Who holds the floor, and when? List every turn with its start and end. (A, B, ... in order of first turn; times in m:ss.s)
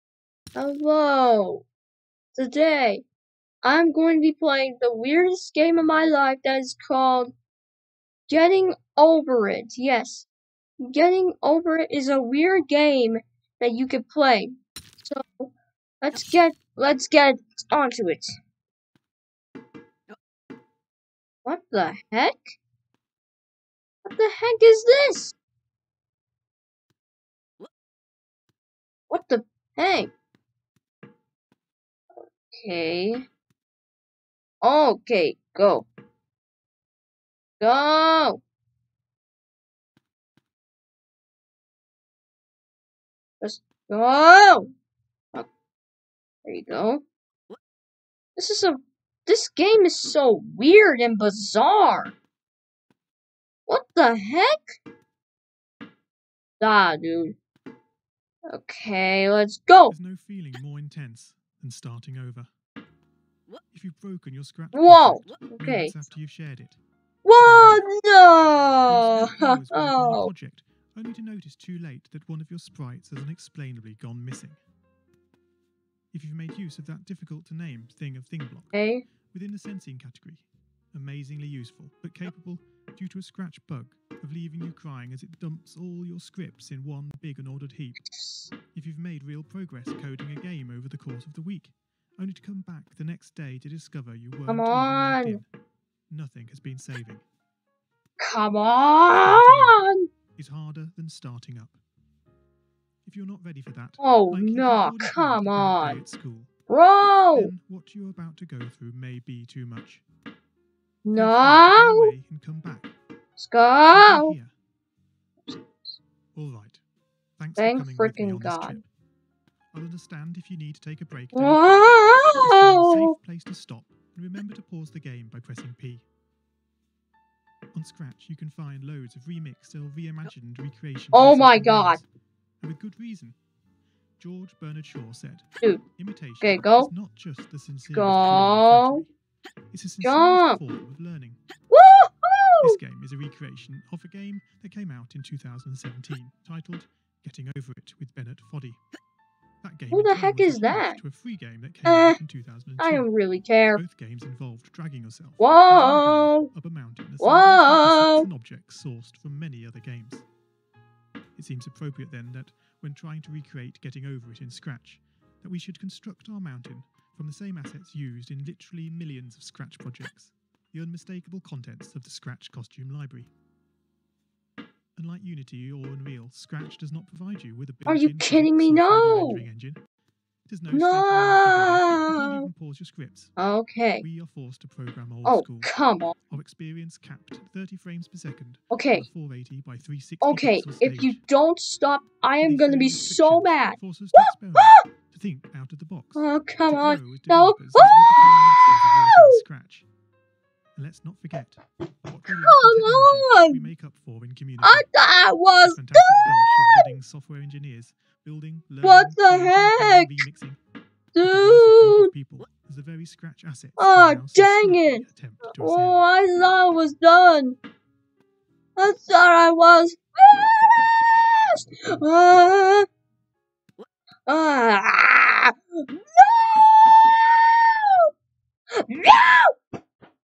0:00.5-0:01.6 A
0:02.3-0:03.0 A
0:03.6-0:07.3 A
0:08.3-0:10.3 A
0:10.8-0:15.5 A
0:16.0-0:18.4 A
0:21.4-0:22.6 A
0:24.0-0:25.4 A
0:29.1-0:30.1 A
0:32.5-0:33.2 A
0:34.6-0:35.9 A
0:37.6-0:38.4 A
0:43.4-0:44.7 A
0:46.4-0:47.0 A
0:48.4-0:52.1 A
0:53.7-0:54.8 A
0:56.6-0:57.3 A
0:58.5-0:59.9 A
0:59.9-1:02.5 B
1:03.7-1:06.8 B
1:04.7-1:06.0 A
1:07.2-1:10.3 A
1:07.4-1:07.8 B
1:08.8-1:14.6 B
1:16.1-1:18.8 B
1:18.7-1:19.0 A
1:19.3-1:28.0 B
1:28.1-1:28.5 A
1:28.7-1:35.5 B
1:34.5-1:35.4 A
1:36.1-1:37.2 B
1:38.2-1:40.0 A
1:39.2-1:39.8 B
1:40.4-1:41.8 B
1:43.0-1:46.5 B
1:44.0-1:46.0 A
1:46.7-1:47.5 A
1:47.3-1:50.0 B
1:51.0-1:52.1 A
1:51.1-1:52.9 B
1:53.4-1:54.3 A
1:53.9-1:54.5 B
1:55.4-1:56.0 A
1:56.3-1:56.8 B
1:57.4-1:58.9 B
1:57.6-1:58.8 A
1:59.7-2:06.0 B
2:01.3-2:03.1 A
2:07.7-2:12.0 B
2:11.1-2:12.0 A
2:12.6-2:13.4 B
2:14.2-2:19.1 B
2:16.4-2:16.9 A
2:17.9-2:19.0 A
2:19.7-2:21.4 B
2:20.0-2:20.6 A
2:21.7-2:22.8 A
2:22.6-2:28.8 B
2:29.6-2:33.1 B
2:29.9-2:31.0 A
2:31.8-2:32.2 A
2:32.8-2:33.8 A
2:33.8-2:40.2 B
2:35.4-2:36.5 A
2:37.2-2:38.3 A
2:41.4-2:53.3 B
2:55.0-2:59.8 B
2:57.9-2:59.4 A
3:00.5-3:03.4 B
3:00.7-3:02.5 A
3:03.4-3:04.0 A
3:04.0-3:05.7 B
3:05.2-3:06.1 A
3:06.3-3:11.2 B
3:08.7-3:09.0 A
3:10.2-3:14.8 A
3:12.4-3:19.9 B
3:16.2-3:19.4 A
3:20.7-3:24.9 B
3:22.4-3:23.6 A
3:24.6-3:26.0 A
3:25.6-3:30.6 B
3:28.8-3:30.1 A
3:31.1-3:32.1 A
3:31.2-3:36.0 B
3:33.8-3:37.6 A
3:38.8-3:42.8 A
3:44.3-3:45.5 A
3:46.1-3:48.1 A
3:48.9-3:49.5 A